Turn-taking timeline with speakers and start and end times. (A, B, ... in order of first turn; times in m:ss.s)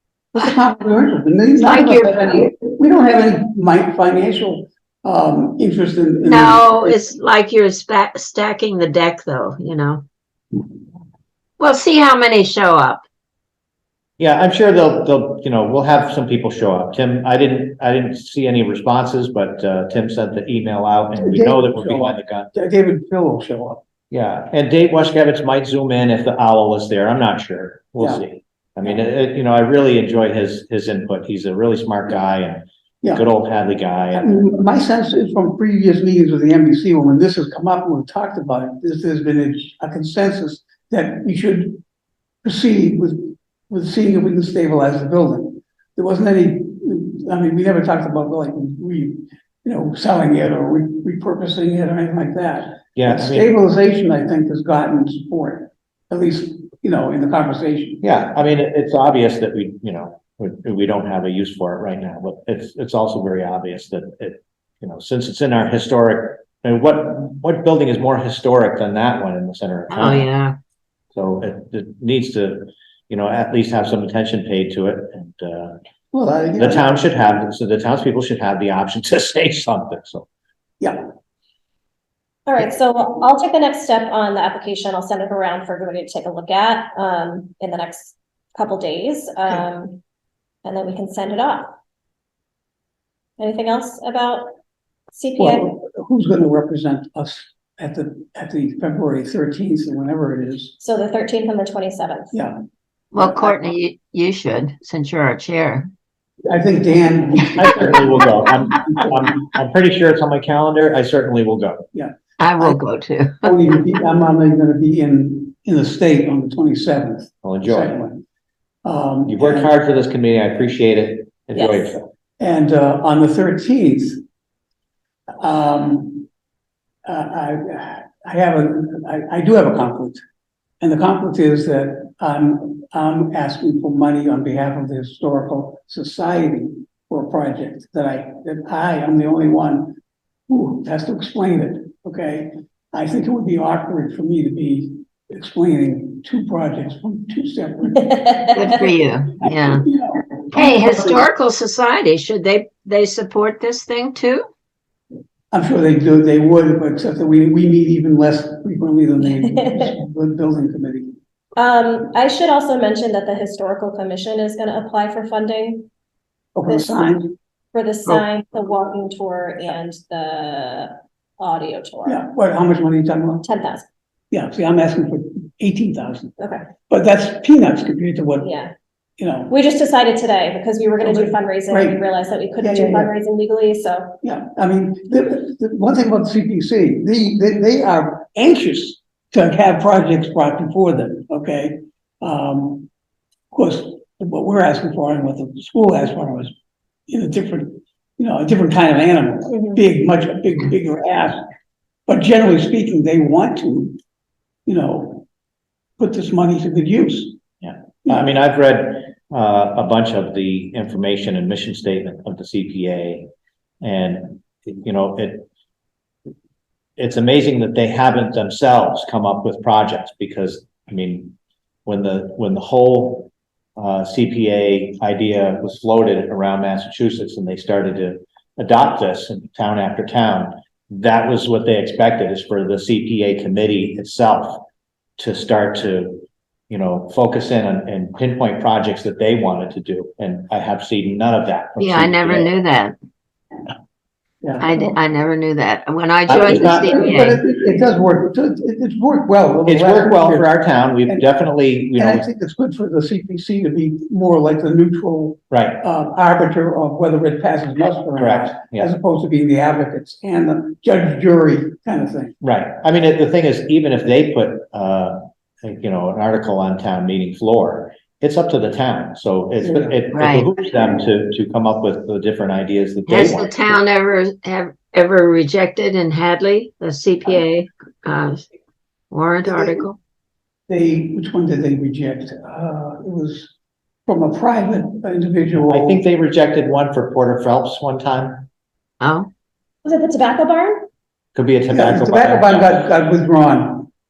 0:00.3-0:07.0 A
0:01.6-0:02.4 B
0:06.2-0:10.1 B
0:11.6-0:13.0 B
0:14.2-0:22.5 C
0:21.2-0:23.8 A
0:24.1-0:34.4 C
0:28.0-0:28.2 A
0:34.1-0:41.8 A
0:42.4-0:58.0 A
0:53.0-0:53.5 C
0:58.0-1:10.3 C
1:09.9-1:10.6 B
1:11.1-1:15.8 C
1:16.1-1:16.9 A
1:16.6-1:20.3 C
1:20.8-1:21.1 A
1:22.5-1:30.0 D
1:30.6-1:31.8 D
1:33.4-1:34.6 D
1:35.1-1:35.7 D
1:35.4-1:40.8 A
1:40.8-1:42.4 D
1:42.3-1:42.6 A
1:43.1-1:45.9 B
1:43.2-1:43.6 A
1:46.5-1:48.3 A
1:47.5-1:51.9 C
1:51.9-1:52.8 A
1:52.4-1:53.6 B
1:53.4-1:58.2 A
1:57.4-1:58.0 C
1:58.8-1:59.7 A
1:59.2-2:02.1 C
2:02.4-2:04.2 A
2:05.4-2:06.3 A
2:07.1-2:10.2 A
2:10.8-2:20.0 A
2:20.5-2:28.2 A
2:28.0-2:28.7 D
2:28.6-2:29.9 B
2:29.4-2:31.2 A
2:30.5-2:34.5 B
2:35.5-2:41.1 A
2:39.2-2:39.9 D
2:41.6-2:45.9 D
2:46.6-2:47.3 A
2:46.7-2:47.0 D
2:47.7-2:52.2 D
2:52.1-2:53.4 A
2:53.4-2:53.9 D
2:54.3-2:56.4 A
2:56.4-2:56.6 D
2:56.9-2:58.5 A
2:58.4-2:58.7 D
2:59.2-2:59.6 A
2:59.5-3:04.2 D
3:01.0-3:02.0 A
3:02.6-3:03.1 A
3:04.2-3:12.9 A
3:13.5-3:16.5 A
3:17.1-3:21.4 A
3:19.5-3:19.8 D
3:22.1-3:24.0 A
3:24.7-3:25.3 A
3:26.0-3:27.4 A
3:27.6-3:33.3 C
3:33.8-3:35.5 C
3:37.0-3:41.4 C
3:41.9-3:54.6 C
3:55.2-4:02.5 C
4:01.8-4:03.0 B
4:04.4-4:04.9 A
4:04.6-4:07.4 B
4:06.3-4:10.5 A
4:06.3-4:06.8 C
4:09.7-4:12.3 C
4:11.9-4:22.4 A
4:15.5-4:15.8 C
4:18.2-4:18.9 C
4:22.4-4:33.5 C
4:29.6-4:30.0 A
4:30.1-4:30.5 B
4:33.1-4:38.5 B
4:39.1-4:40.0 B
4:39.4-4:39.8 A
4:40.7-4:43.5 A
4:44.1-4:46.0 A
4:45.6-4:48.5 C
4:49.0-4:49.3 B
4:49.8-4:50.9 D
4:51.4-4:52.8 C
4:51.7-4:53.9 A